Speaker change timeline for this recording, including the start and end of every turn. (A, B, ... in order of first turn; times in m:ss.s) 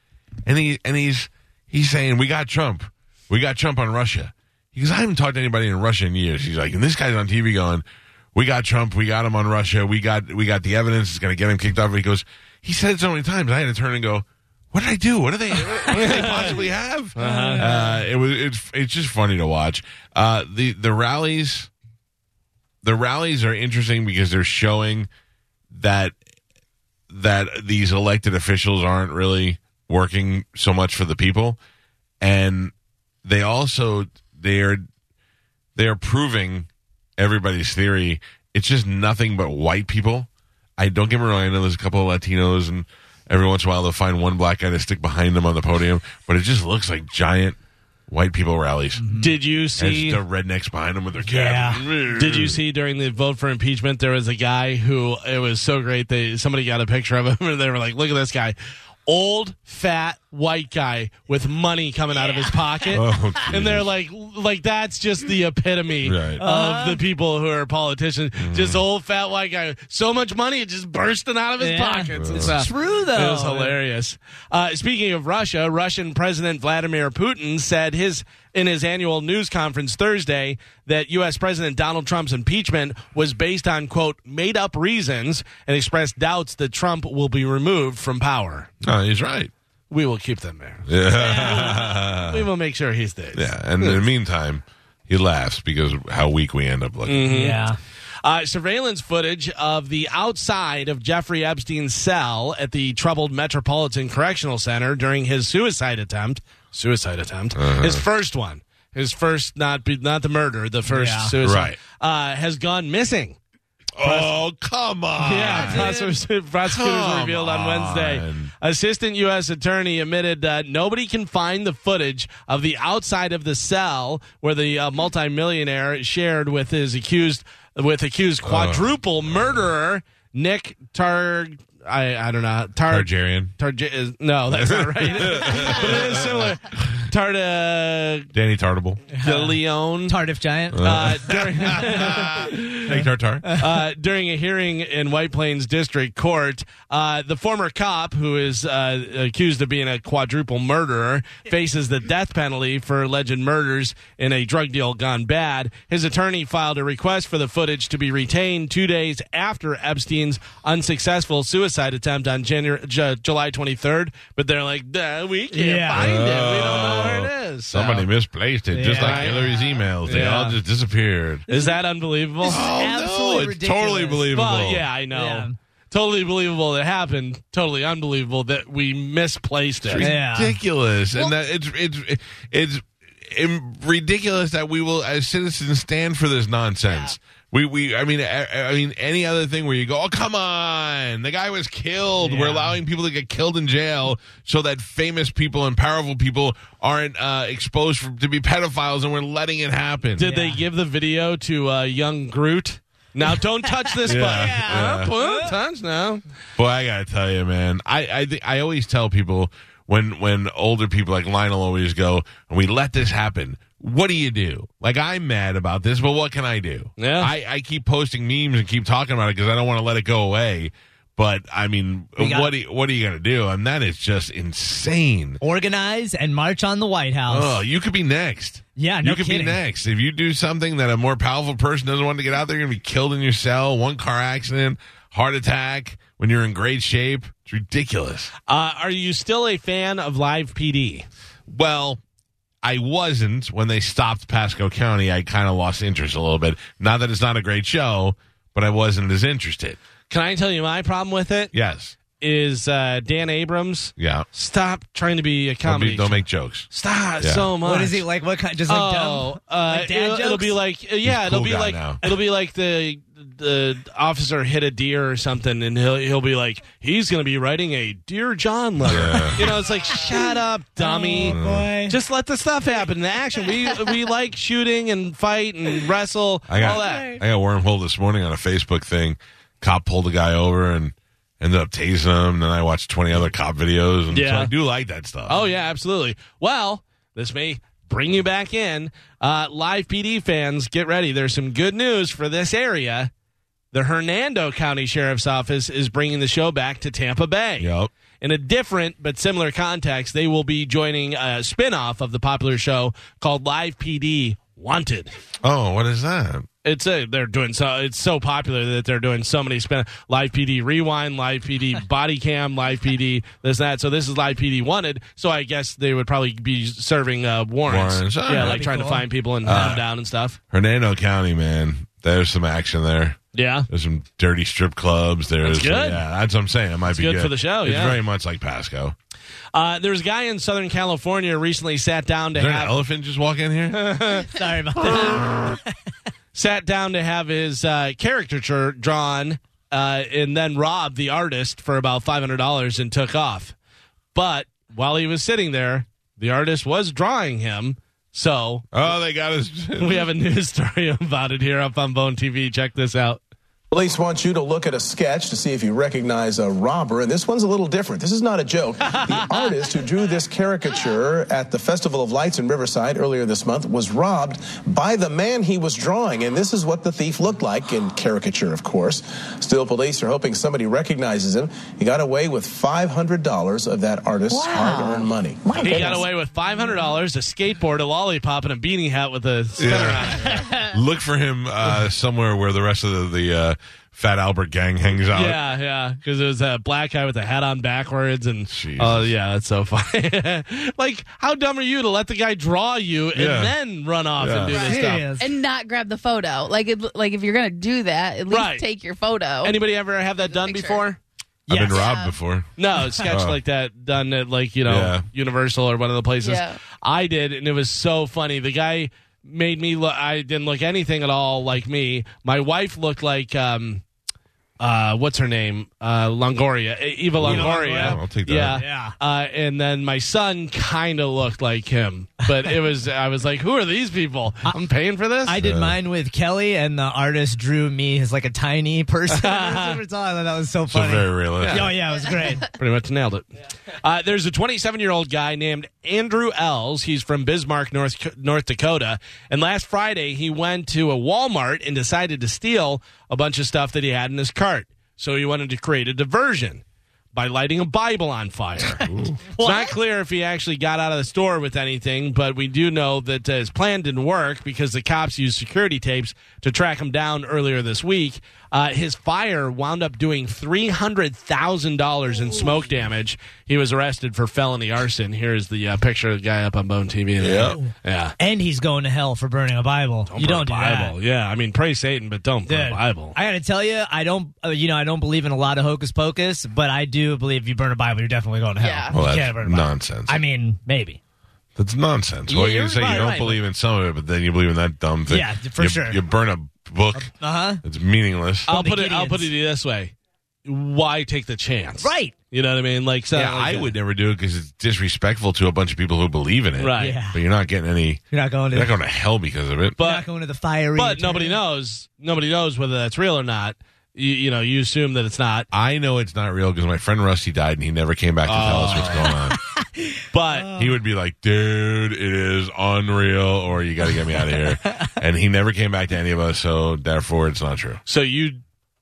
0:00.4-0:21.7 A
0:15.9-0:16.6 B
0:17.2-0:17.6 B
0:17.2-0:18.0 C
0:22.8-0:25.1 A
0:25.7-0:26.2 A
0:27.1-0:31.6 A
0:32.2-0:32.7 A
0:33.2-0:34.9 A
0:35.8-0:49.0 A
0:49.0-0:49.3 C
0:49.2-0:50.2 B
0:49.8-0:52.6 A
0:51.3-0:51.8 C
0:52.1-1:28.7 B
1:02.3-1:02.9 C
1:02.9-1:03.9 A
1:06.0-1:06.4 A
1:06.4-1:07.0 C
1:08.4-1:08.8 A
1:11.6-1:13.8 C
1:12.1-1:12.5 A
1:28.8-1:29.5 A
1:29.9-1:34.0 B
1:30.9-1:32.5 A
1:31.2-1:31.8 C
1:33.3-1:37.4 A
1:37.1-1:37.6 B
1:37.3-1:37.8 C
1:38.2-1:53.4 B
1:47.6-1:48.0 A
1:50.9-1:51.3 C
1:51.4-1:51.8 A
1:54.0-1:55.9 A
1:54.0-1:54.3 B
1:55.2-1:56.1 C
1:55.3-2:18.3 B
1:56.6-1:58.5 A
2:08.4-2:08.9 A
2:12.9-2:13.5 A
2:14.5-2:17.1 A
2:18.3-2:19.0 A
2:19.2-2:19.5 C
2:19.2-2:20.2 B
2:20.1-2:20.9 C
2:20.7-2:23.5 A
2:20.8-2:23.0 B
2:21.7-2:22.1 C
2:23.6-2:48.1 B
2:45.5-2:46.1 C
2:46.0-2:51.5 A
2:48.7-2:50.3 C
2:48.9-2:49.4 B
2:50.1-2:50.6 B
2:51.5-2:52.6 B
2:52.4-2:54.4 C
2:52.5-2:54.9 A
2:54.3-3:00.1 B
2:55.1-2:55.6 C
2:59.8-3:20.3 A
3:00.0-3:00.6 C
3:12.2-3:12.8 C
3:20.2-3:26.2 B
3:20.2-3:20.6 C
3:23.7-3:25.5 C
3:24.0-3:25.1 A
3:26.6-3:45.4 A
3:37.0-3:37.3 B
3:42.2-3:42.5 C
3:45.4-3:47.6 C
3:47.3-3:58.3 A
3:48.8-3:49.6 C
3:58.5-4:01.1 B
4:01.5-4:02.0 A
4:02.6-4:09.8 A
4:10.1-4:11.5 B
4:11.5-4:12.0 A
4:12.2-4:18.0 B
4:14.0-4:14.3 A
4:15.6-4:17.5 A
4:17.6-4:20.6 C
4:18.7-4:31.4 B
4:21.0-4:22.0 A
4:28.8-4:29.6 A
4:30.8-4:32.0 C
4:31.2-4:31.7 A
4:31.9-4:37.2 B
4:36.5-4:45.4 A
4:36.6-4:37.2 C
4:44.1-4:44.5 B
4:45.3-4:53.1 B
4:53.7-5:05.1 B
4:57.6-4:57.9 A
5:05.4-5:06.5 A
5:06.6-5:20.4 B
5:17.7-5:18.7 A
5:18.3-5:19.1 C
5:19.4-5:19.8 A
5:20.5-5:29.0 A
5:23.3-5:23.7 B
5:25.4-5:26.0 B
5:26.9-5:28.0 B
5:29.5-5:32.8 B
5:32.3-5:34.0 A
5:33.7-5:35.4 B
5:34.3-5:35.3 C
5:36.3-5:43.5 B
5:44.1-5:48.7 B
5:48.7-5:50.1 A
5:49.8-5:53.2 B
5:53.7-6:15.6 D
5:59.0-5:59.2 B
6:15.6-6:20.6 B
6:19.6-6:25.4 A
6:25.1-6:35.1 B
6:28.5-6:29.1 A
6:33.1-6:33.6 A
6:34.2-6:34.6 A
6:34.4-6:39.6 E
6:34.7-6:35.3 C
6:38.3-6:38.6 B
6:39.4-6:41.0 B
6:40.3-6:40.8 E
6:41.5-6:43.4 A
6:41.5-6:41.8 C
6:41.7-6:42.2 E
6:42.6-6:53.8 B
6:44.7-6:45.1 A
6:46.2-6:46.6 E
6:54.6-7:05.4 B
6:57.2-6:58.6 A
6:57.2-6:58.9 C
7:05.3-7:12.4 C
7:05.4-7:05.8 A
7:09.1-7:09.8 B
7:10.7-7:11.7 A
7:11.5-7:11.7 B
7:12.6-7:13.3 B
7:13.8-7:26.6 B
7:27.1-7:48.2 B
7:28.8-7:29.2 A
7:29.4-7:29.7 C
7:47.2-7:47.6 A
7:47.5-7:51.0 C
7:50.1-7:53.2 B
7:52.5-8:01.0 C
7:58.6-7:59.0 E
7:58.9-8:00.2 A
8:01.6-8:08.5 A
8:02.3-8:03.4 C
8:05.1-8:06.0 C
8:07.0-8:07.6 C
8:08.5-8:09.9 B
8:08.5-8:09.3 C
8:10.5-8:13.7 B
8:11.8-8:12.1 C
8:13.1-8:19.8 A
8:16.6-8:17.0 B
8:16.8-8:17.2 C
8:18.1-8:18.7 C
8:19.8-8:20.1 B
8:19.8-8:21.4 C
8:20.8-8:25.5 B
8:25.5-8:29.4 A
8:28.3-8:29.1 B
8:29.3-8:30.7 C
8:30.1-8:30.5 B
8:30.5-8:37.8 A
8:34.3-8:34.9 C
8:37.9-8:38.4 B